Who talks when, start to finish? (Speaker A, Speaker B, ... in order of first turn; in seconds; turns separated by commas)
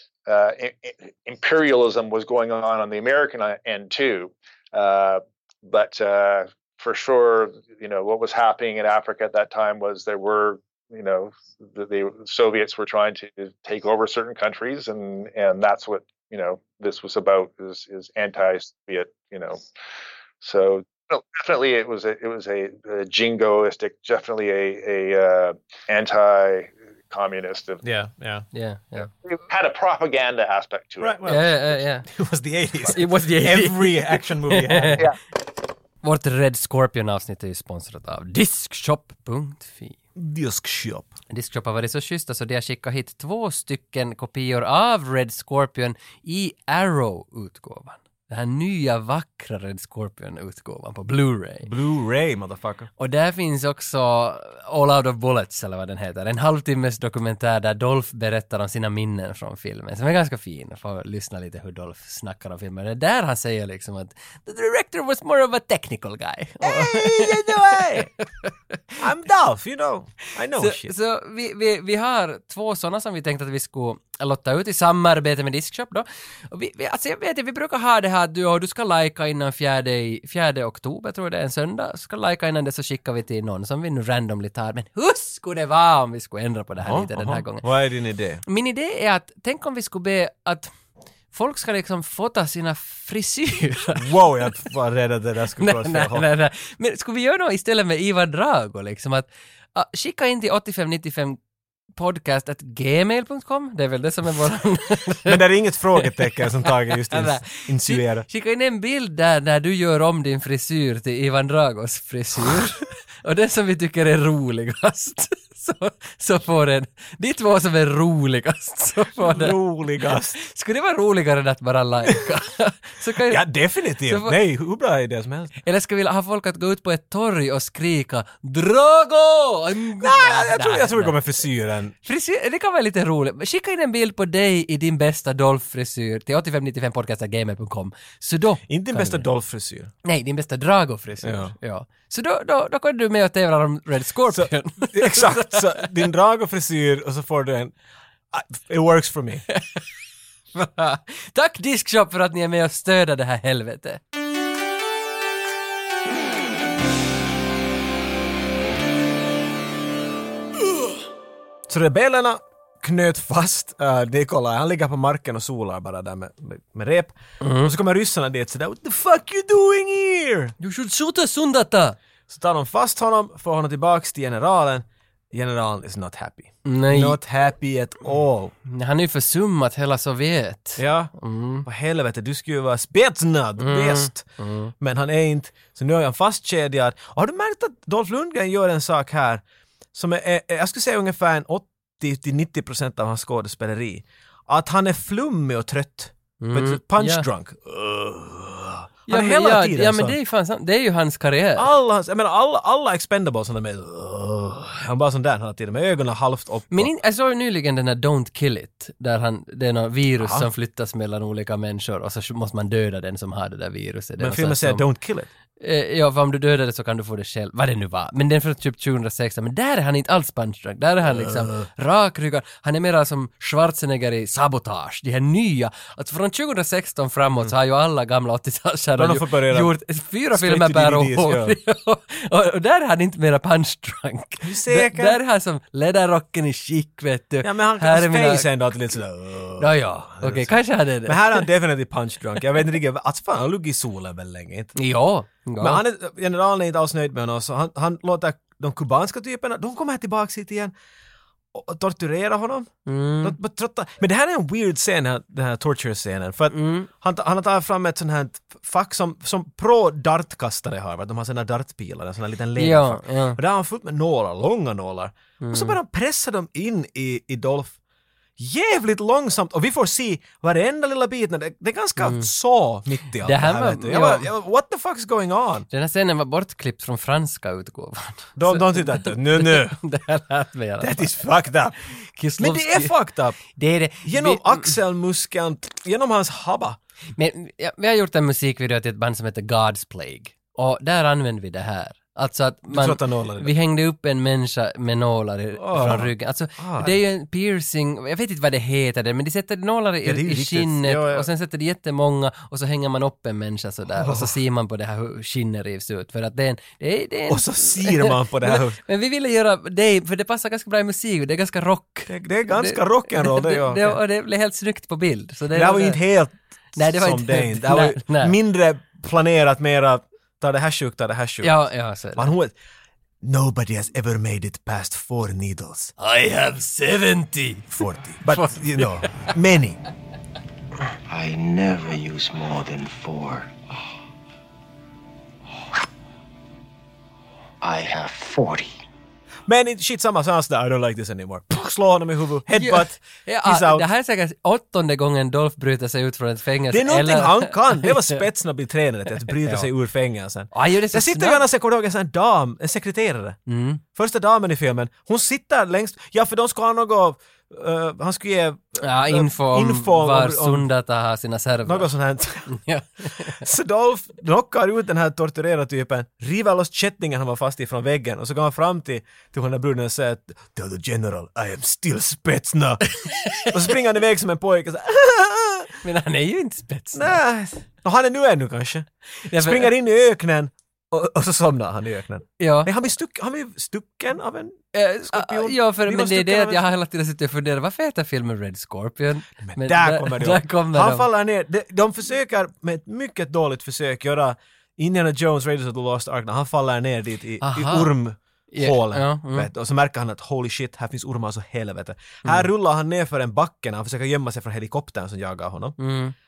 Speaker A: 0.2-19.6, Speaker A: 20.4-27.8, Speaker B: 27.8-28.4, Speaker C: 28.5-29.1, Speaker A: 29.1-31.2, Speaker B: 31.0-35.1, Speaker C: 31.2-32.0, Speaker C: 32.9-35.1, Speaker C: 36.0-40.0, Speaker B: 40.1-41.1, Speaker C: 41.3-51.7, Speaker B: 51.6-52.9, Speaker C: 53.0-68.5, Speaker B: 66.6-68.1, Speaker B: 69.0-70.9, Speaker C: 70.5-87.6, Speaker B: 86.8-88.4, Speaker C: 88.5-90.7, Speaker C: 91.3-94.2, Speaker B: 93.9-96.2, Speaker C: 95.6-101.4, Speaker C: 102.0-105.4, Speaker B: 105.2-108.2, Speaker C: 106.0-123.4, Speaker B: 119.2-120.3, Speaker B: 123.3-125.6, Speaker C: 124.0-124.4, Speaker C: 125.6-131.2, Speaker B: 130.0-131.9, Speaker C: 132.0-139.2, Speaker B: 138.7-139.9, Speaker C: 140.0-145.9, Speaker B: 141.2-141.5, Speaker B: 144.3-147.7, Speaker B: 148.3-149.4, Speaker C: 149.5-149.8, Speaker C: 150.5-154.0, Speaker B: 161.7-170.5, Speaker C: 167.4-167.7, Speaker C: 170.6-172.0, Speaker B: 172.3-178.5, Speaker C: 176.6-177.2, Speaker C: 178.7-181.7, Speaker B: 180.8-181.1, Speaker B: 181.6-189.4, Speaker C: 183.6-184.7, Speaker B: 189.9-200.2, Speaker C: 196.4-197.2, Speaker C: 199.1-201.7, Speaker B: 201.6-206.9, Speaker C: 206.7-214.8, Speaker B: 210.2-210.5, Speaker B: 214.2-215.3, Speaker C: 215.6-238.5, Speaker B: 221.0-221.7, Speaker B: 228.9-229.7, Speaker B: 230.3-231.6, Speaker B: 234.4-235.2, Speaker B: 237.4-244.8, Speaker C: 239.6-241.5, Speaker C: 244.8-245.8, Speaker B: 245.6-250.7, Speaker B: 251.5-267.8, Speaker C: 252.8-253.3, Speaker C: 256.5-256.9, Speaker C: 262.6-263.4, Speaker C: 265.4-265.8, Speaker B: 268.4-275.7, Speaker C: 272.0-272.3, Speaker C: 273.2-274.3, Speaker C: 275.7-281.2, Speaker B: 278.4-279.8, Speaker B: 280.8-281.8, Speaker C: 282.0-282.9, Speaker B: 282.4-283.4, Speaker C: 283.5-284.7, Speaker B: 284.0-286.8, Speaker C: 287.1-316.0, Speaker B: 292.7-293.5, Speaker B: 295.6-297.0, Speaker B: 300.0-301.3, Speaker B: 303.9-304.3, Speaker B: 307.3-308.8, Speaker B: 312.1-314.0, Speaker B: 315.5-322.5, Speaker C: 316.8-318.3, Speaker C: 321.4-322.3, Speaker B: 323.2-325.9, Speaker C: 326.0-329.3, Speaker B: 327.7-329.8, Speaker D: 331.1-333.6, Speaker D: 337.6-338.8, Speaker B: 339.5-343.9, Speaker C: 342.5-348.2, Speaker B: 346.7-353.4, Speaker C: 349.4-349.7, Speaker C: 350.5-351.4, Speaker C: 353.5-353.8, Speaker B: 353.9-360.7, Speaker C: 358.8-361.9, Speaker B: 361.6-362.5, Speaker C: 362.4-363.4, Speaker B: 363.2-375.8, Speaker C: 373.0-373.6, Speaker C: 375.8-377.2, Speaker B: 376.9-386.7, Speaker C: 379.2-379.7, Speaker C: 382.4-382.7, Speaker C: 384.7-391.1, Speaker B: 389.4-405.8, Speaker C: 397.4-397.9, Speaker C: 398.5-399.5, Speaker C: 405.8-406.1